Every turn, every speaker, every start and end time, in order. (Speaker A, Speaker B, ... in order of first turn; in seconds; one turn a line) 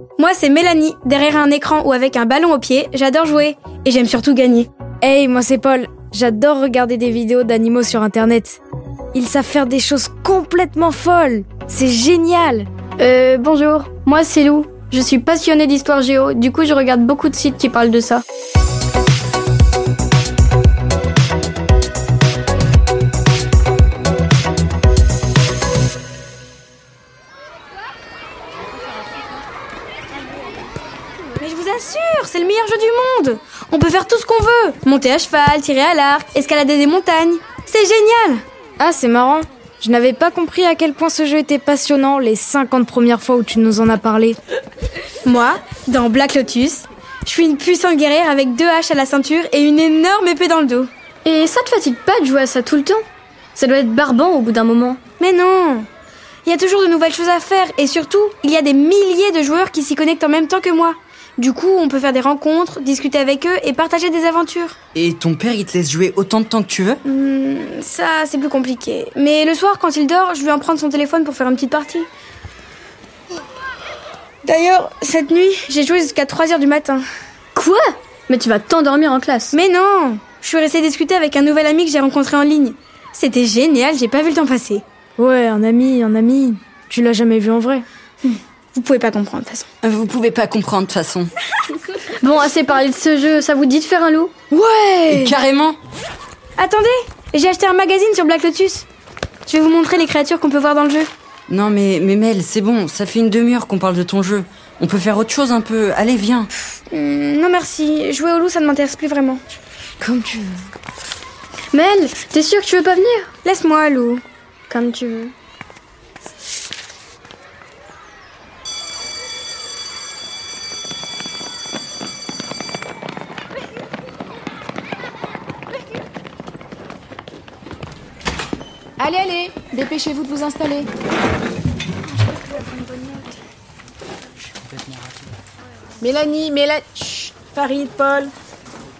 Speaker A: 0.2-4.7
Speaker B: 5.0-8.6
Speaker B: 9.1-12.7
Speaker C: 13.0-18.2
Speaker A: 31.4-38.4
Speaker B: 38.8-44.4
Speaker A: 45.2-50.9
Speaker C: 51.2-53.0
Speaker C: 53.5-55.0
Speaker A: 55.2-55.9
Speaker A: 56.4-64.8
Speaker D: 64.9-67.0
Speaker A: 67.0-72.1
Speaker A: 74.4-77.0
Speaker C: 77.5-79.5
Speaker A: 79.5-84.8
Speaker B: 85.2-87.8
Speaker A: 88.2-89.7
Speaker D: 89.8-91.3
Speaker C: 92.2-94.3
Speaker A: 94.5-95.3
Speaker D: 95.1-95.8
Speaker A: 96.6-98.8
Speaker A: 99.5-101.1
Speaker D: 101.5-106.5
Speaker A: 106.9-109.4
Speaker B: 110.0-110.6
Speaker C: 111.7-113.3
Speaker A: 113.4-114.2
Speaker C: 114.7-115.3
Speaker E: 129.0-130.8
Speaker A: 132.0-133.4
Speaker B: 136.0-138.3
Speaker E: 136.5-137.3